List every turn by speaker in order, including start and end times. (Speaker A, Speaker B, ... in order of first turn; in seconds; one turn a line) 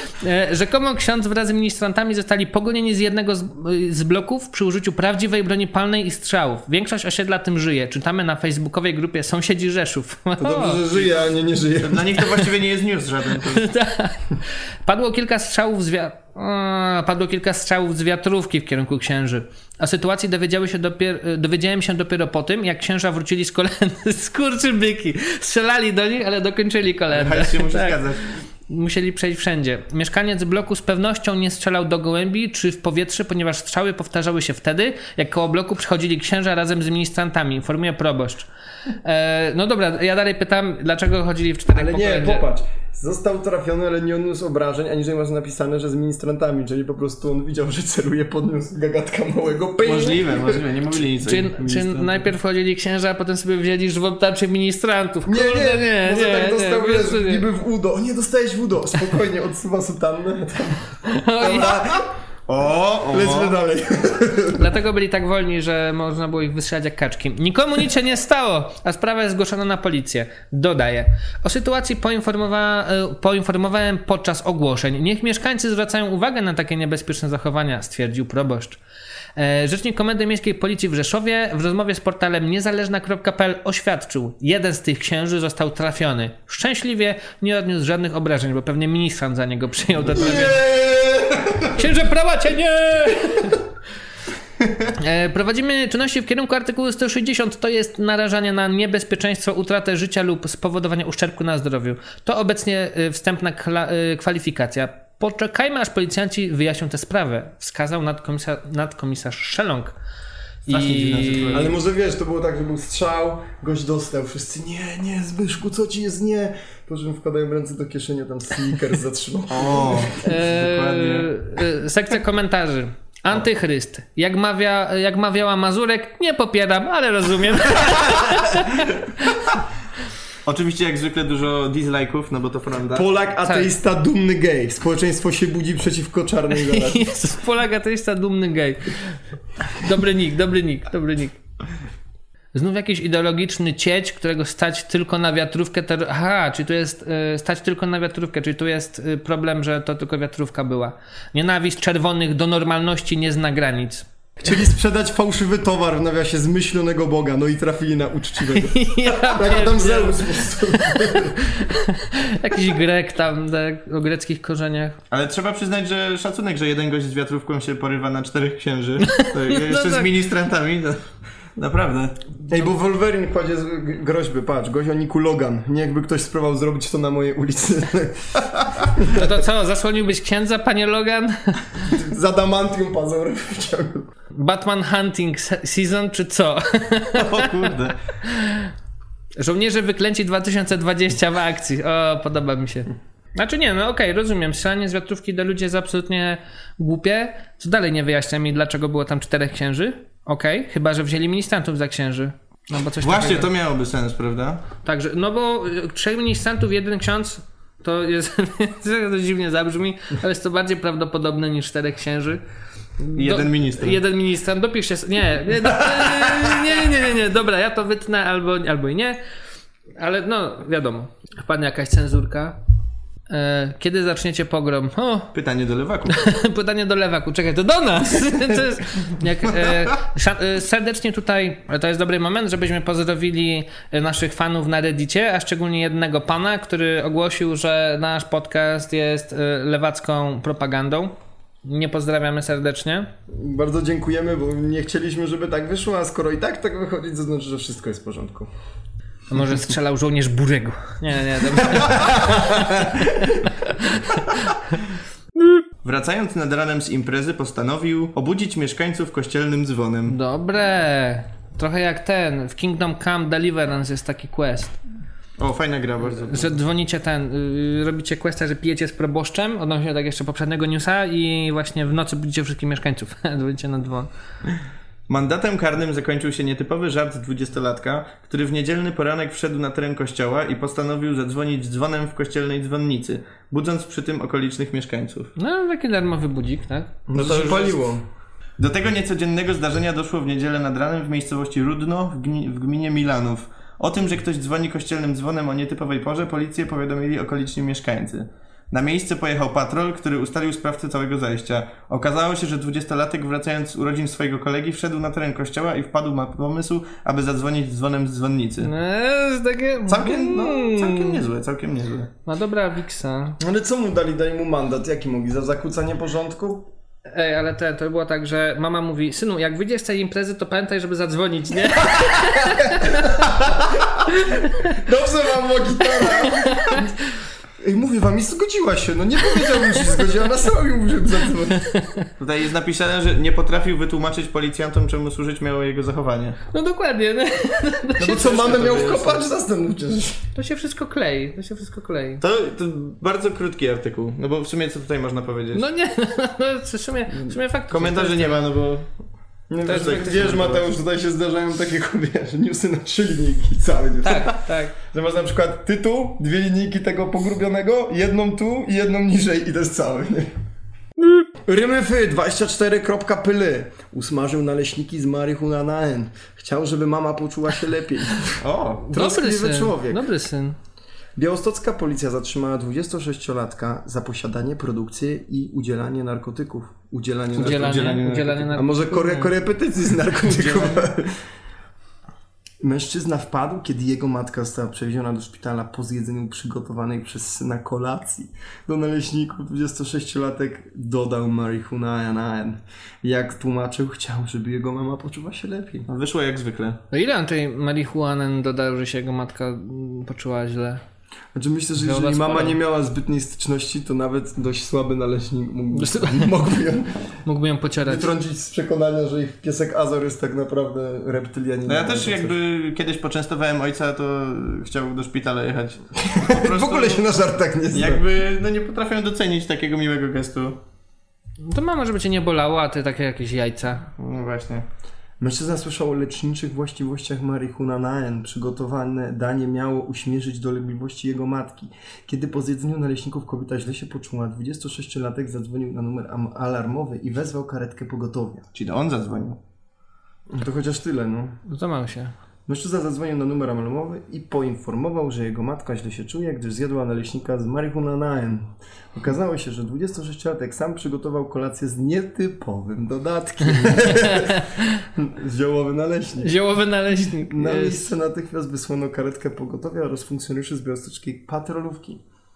Speaker A: 0.2-10.8
Speaker B: 10.4-12.2
Speaker C: 10.9-11.3
Speaker C: 11.8-13.7
Speaker A: 13.5-28.0
Speaker C: 27.1-28.3
Speaker A: 28.7-38.5
Speaker A: 39.0-42.5
Speaker B: 41.7-50.6
Speaker C: 49.8-52.3
Speaker A: 51.2-57.4
Speaker B: 55.2-62.1
Speaker A: 61.1-61.8
Speaker C: 62.5-63.6
Speaker B: 63.1-64.7
Speaker A: 64.5-78.8
Speaker A: 79.4-90.6
Speaker B: 90.1-91.8
Speaker A: 91.8-93.6
Speaker A: 95.0-109.9
Speaker A: 110.7-111.7
Speaker C: 110.7-111.7
Speaker B: 111.5-120.1
Speaker C: 119.5-121.3
Speaker A: 120.2-128.9
Speaker C: 130.4-133.1
Speaker B: 132.9-137.1
Speaker A: 136.6-139.0
Speaker A: 139.6-141.4
Speaker A: 142.5-154.1
Speaker B: 154.4-161.5
Speaker A: 158.6-165.0
Speaker C: 165.1-171.0
Speaker A: 169.1-170.1
Speaker C: 171.6-172.2
Speaker B: 172.5-179.3
Speaker A: 179.1-181.6
Speaker B: 181.8-184.1
Speaker A: 184.3-187.5
Speaker C: 187.2-188.0
Speaker A: 188.3-188.7
Speaker A: 189.4-203.5
Speaker C: 203.0-204.6
Speaker A: 204.8-212.4
Speaker A: 213.0-219.2
Speaker C: 213.2-214.0
Speaker A: 220.0-222.6
Speaker A: 223.3-225.3
Speaker C: 225.3-226.2
Speaker A: 226.1-243.1
Speaker B: 243.3-248.5
Speaker A: 249.3-252.5
Speaker B: 251.8-253.3
Speaker A: 253.9-254.3
Speaker C: 255.8-260.2
Speaker A: 260.1-264.8
Speaker C: 265.4-266.6
Speaker A: 266.1-274.1
Speaker C: 275.1-285.3
Speaker A: 285.4-286.9
Speaker B: 287.1-288.0
Speaker C: 287.1-287.8
Speaker C: 288.6-308.7
Speaker A: 308.6-311.2
Speaker C: 309.9-312.1
Speaker A: 312.3-313.4
Speaker B: 313.4-316.7
Speaker A: 317.1-323.2
Speaker B: 322.2-323.8
Speaker B: 324.7-326.9
Speaker A: 326.3-326.8
Speaker B: 327.6-331.8
Speaker C: 332.2-336.4
Speaker A: 336.5-338.3
Speaker B: 338.0-340.2
Speaker C: 338.0-339.2
Speaker A: 340.4-342.2
Speaker C: 342.2-345.6
Speaker A: 345.5-348.4
Speaker C: 347.7-348.9
Speaker B: 349.5-360.4
Speaker A: 349.7-350.4
Speaker C: 349.7-350.6
Speaker A: 354.0-354.7
Speaker B: 361.4-370.0
Speaker C: 368.4-368.8
Speaker A: 368.9-370.6
Speaker B: 371.2-378.0
Speaker A: 377.4-379.2
Speaker C: 377.4-378.6
Speaker B: 378.5-381.1
Speaker C: 380.3-380.9
Speaker B: 382.6-395.9
Speaker C: 395.9-396.8
Speaker A: 396.9-400.8
Speaker B: 401.4-406.9
Speaker A: 401.8-402.6
Speaker A: 405.7-406.4
Speaker A: 407.3-408.1
Speaker B: 407.8-412.4
Speaker C: 411.7-417.1
Speaker B: 416.0-418.0
Speaker C: 417.7-420.6
Speaker A: 421.4-423.9
Speaker C: 424.0-424.6
Speaker B: 425.2-438.4
Speaker C: 438.6-439.4
Speaker B: 440.3-441.4
Speaker A: 441.5-442.1
Speaker B: 442.5-456.3
Speaker A: 453.6-454.5
Speaker A: 456.2-457.9
Speaker B: 457.3-462.0